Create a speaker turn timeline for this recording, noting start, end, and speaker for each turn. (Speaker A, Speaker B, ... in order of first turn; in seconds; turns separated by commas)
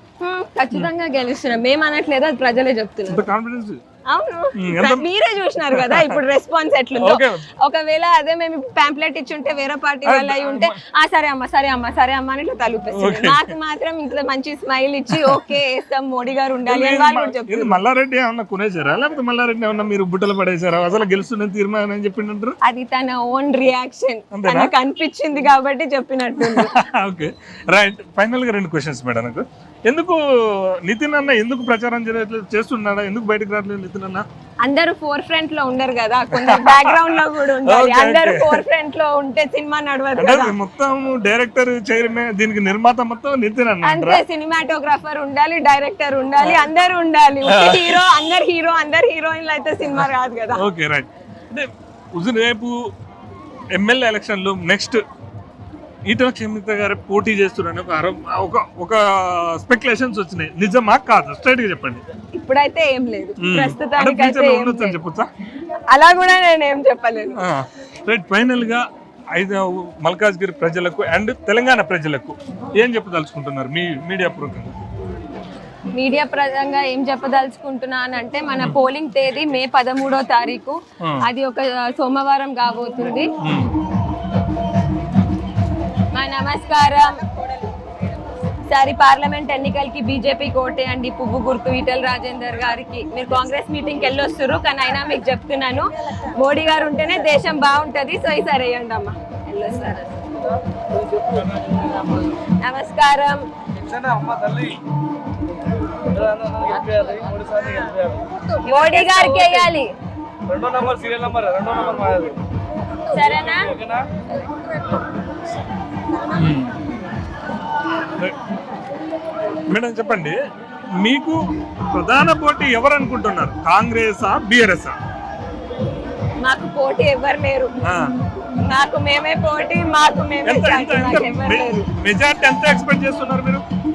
Speaker A: 0.2-3.2, Speaker B: 3.1-3.8, Speaker A: 4.0-17.8, Speaker B: 4.5-5.0, Speaker B: 5.7-6.2, Speaker B: 7.0-7.4, Speaker B: 10.0-10.8, Speaker B: 12.9-13.5, Speaker B: 16.7-22.6, Speaker A: 22.6-26.9, Speaker B: 24.3-24.7, Speaker B: 26.4-34.2, Speaker A: 34.6-40.6, Speaker B: 36.3-38.6, Speaker B: 40.2-44.2, Speaker A: 43.8-50.6, Speaker B: 47.4-48.0, Speaker B: 50.5-52.9, Speaker B: 53.7-55.0, Speaker B: 56.1-62.0, Speaker A: 62.3-65.0, Speaker B: 63.4-65.3, Speaker A: 65.9-67.4, Speaker B: 67.4-74.8, Speaker A: 75.9-83.3, Speaker B: 83.4-83.8, Speaker A: 86.1-87.3, Speaker A: 88.7-100.6, Speaker C: 101.4-101.7, Speaker A: 102.4-103.5, Speaker C: 103.8-104.8, Speaker C: 106.0-108.2, Speaker A: 108.6-109.9, Speaker C: 110.5-112.4, Speaker A: 113.1-113.8, Speaker C: 113.5-114.0, Speaker B: 116.3-116.8, Speaker B: 119.7-120.3, Speaker B: 121.0-121.4, Speaker B: 121.9-124.9, Speaker A: 126.4-127.8, Speaker B: 127.8-128.2, Speaker A: 128.4-131.9, Speaker B: 130.4-133.6